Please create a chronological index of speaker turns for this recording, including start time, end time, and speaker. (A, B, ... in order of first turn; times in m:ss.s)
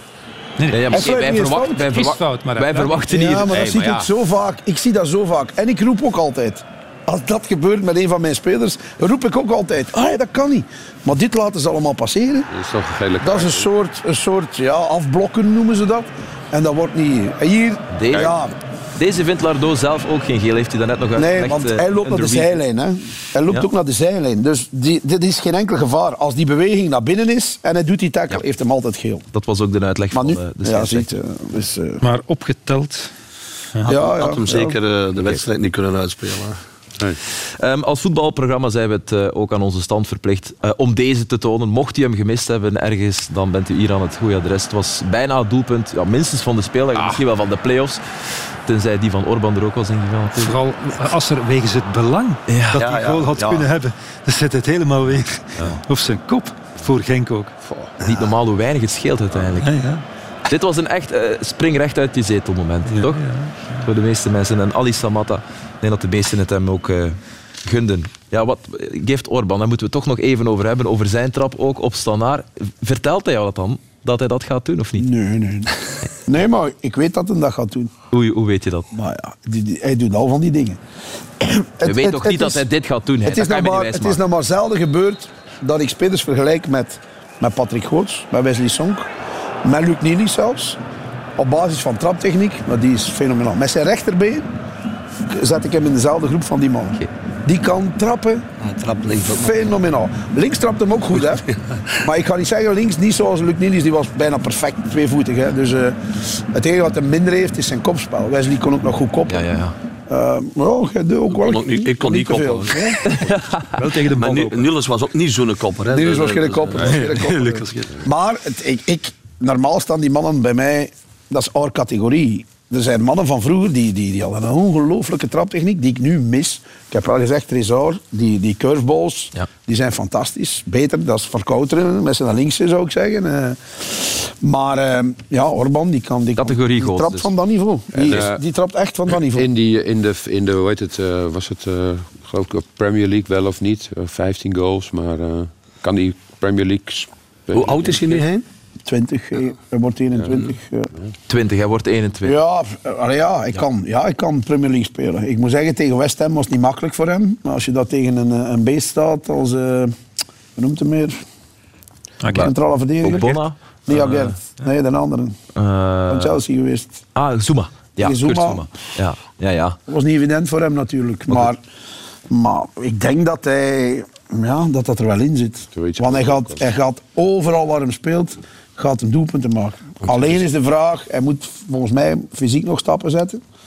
0:00.6-0:03.0 A
0:00.7-0:03.6 B
0:00.9-0:01.8 C
0:03.1-0:12.5 C
0:03.5-0:04.1 D
0:12.5-0:13.7 D
0:13.2-0:18.5 C
0:17.9-0:18.4 B
0:19.0-0:22.6 B
0:21.2-0:29.3 C
0:29.3-0:31.1 B
0:30.1-0:32.0 C
0:32.0-0:33.1 A
0:33.8-0:36.6 E
0:33.9-0:34.8 C
0:37.6-0:50.5 B
0:46.9-0:47.2 D
0:50.4-0:57.5 A
0:52.5-0:52.8 B
0:52.7-0:53.7 E
0:57.6-0:57.9 D
0:58.0-0:58.3 E
0:58.1-0:59.8 B
0:59.6-1:00.0 A
1:00.5-1:03.2 B
1:02.9-1:03.8 A
1:03.8-1:15.0 B
1:15.0-1:15.7 C
1:16.2-1:17.9 C
1:18.1-1:18.9 B
1:18.9-1:20.8 C
1:21.4-1:22.6 C
1:21.8-1:24.2 B
1:23.2-1:29.1 C
1:29.6-1:30.8 C
1:31.4-1:34.5 C
1:35.3-1:38.5 C
1:38.6-1:39.6 E
1:39.2-1:41.4 C
1:41.5-1:41.8 E
1:42.0-1:49.5 C
1:49.3-1:49.8 B
1:50.1-1:53.1 C
1:51.3-1:53.1 E
1:53.1-1:53.8 B
1:53.8-1:54.7 A
1:54.0-1:57.9 E
1:55.9-2:19.5 C
1:56.9-1:57.7 A
2:16.4-2:17.3 B
2:18.0-2:18.4 D
2:19.1-2:28.2 D
2:27.5-2:28.4 E
2:28.9-2:30.9 C
2:31.3-2:32.4 B
2:32.2-2:40.0 C
2:40.6-2:41.2 C
2:42.2-2:42.5 A
2:42.3-2:45.4 C
2:43.0-2:44.4 B
2:45.6-2:46.4 B
2:46.1-2:47.0 C
2:47.2-2:49.8 B
2:48.0-2:48.7 C
2:49.9-2:51.6 C
2:52.3-3:03.4 C
2:55.8-2:56.6 D